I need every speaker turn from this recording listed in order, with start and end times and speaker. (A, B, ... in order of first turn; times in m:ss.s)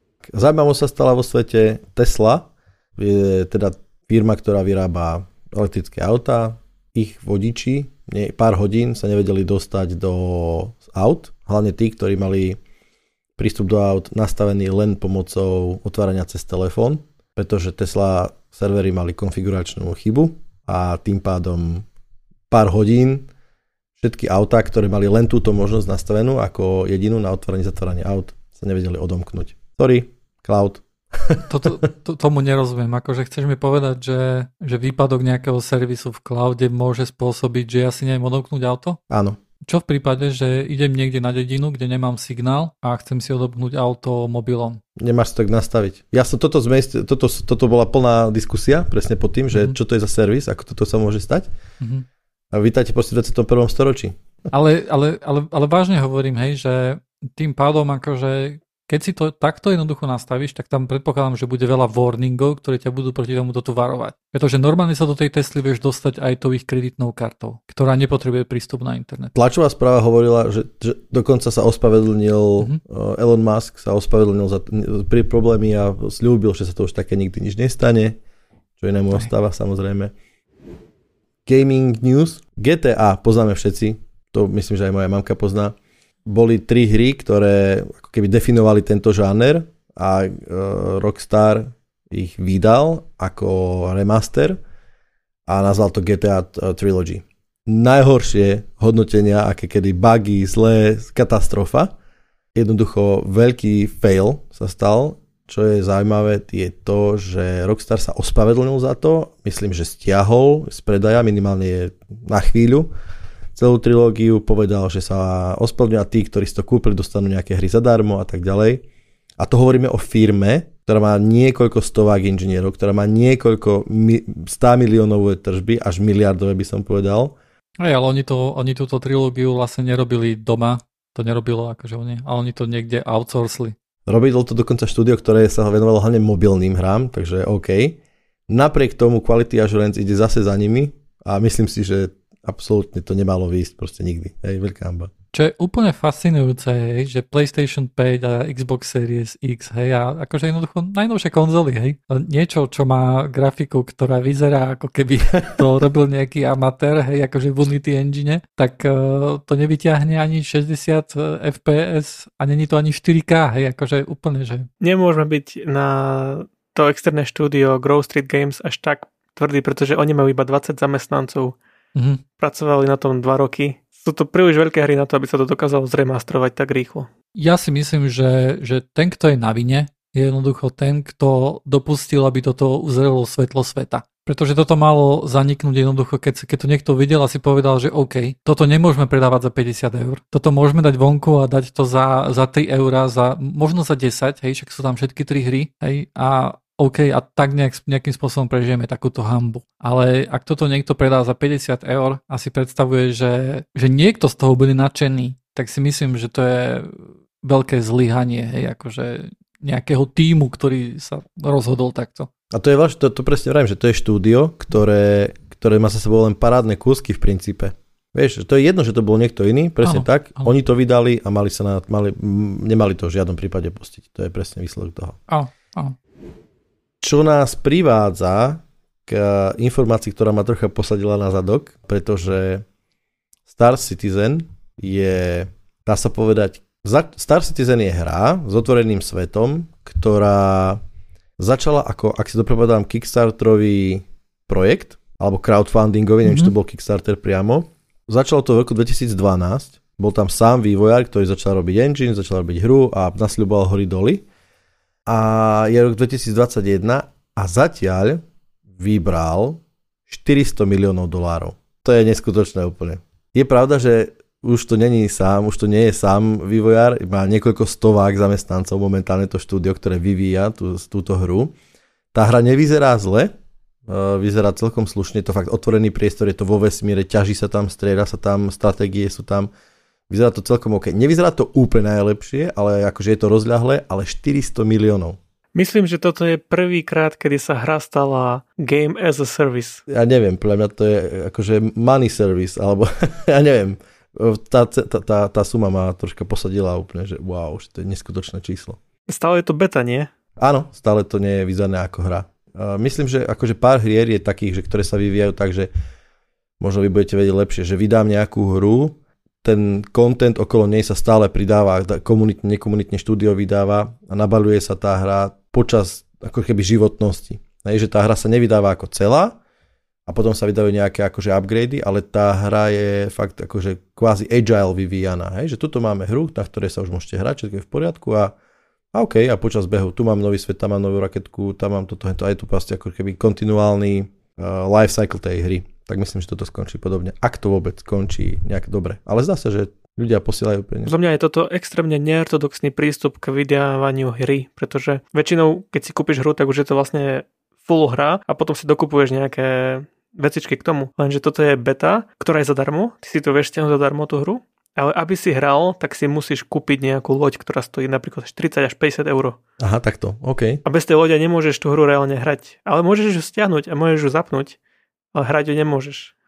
0:00.3-0:12.6 A
0:13.4-0:21.9 A
0:22.5-0:23.3 A
0:24.0-0:31.7 A
0:31.5-0:39.0 B
0:39.1-0:39.4 A
0:39.6-0:44.8 B
0:45.0-0:51.5 A
0:51.8-0:52.1 B
0:52.5-0:54.2 A
0:54.5-1:09.3 B
1:09.4-1:18.2 A
1:18.8-1:20.1 A
1:21.5-1:25.8 A
1:26.3-1:34.6 A
1:35.5-1:41.9 A
1:42.5-1:52.9 A
1:53.6-1:58.8 A
1:59.4-2:07.4 A
2:07.8-2:13.7 B
2:14.1-2:25.1 A
2:25.3-2:44.7 B
2:44.8-2:51.6 C
2:52.0-2:52.2 B
2:52.4-2:57.1 C
2:57.4-3:32.3 B
3:32.5-3:45.2 A
3:39.8-3:40.5 B
3:45.3-3:46.0 B
3:47.0-3:52.6 A
3:53.5-4:00.8 A
4:01.4-4:14.2 A
4:06.3-4:06.5 B
4:15.1-4:18.2 A
4:18.8-4:31.6 A
4:32.1-4:33.3 A
4:33.9-4:39.5 A
4:40.1-4:45.2 A
4:45.6-4:49.8 C
4:49.9-4:58.8 A
4:59.1-5:00.1 C
5:00.4-5:05.7 A
5:06.6-5:19.4 A
5:20.1-5:28.4 A
5:28.9-5:40.9 A
5:40.9-5:59.4 C
5:59.6-6:00.6 A
6:00.6-6:04.6 C
6:05.1-6:06.1 C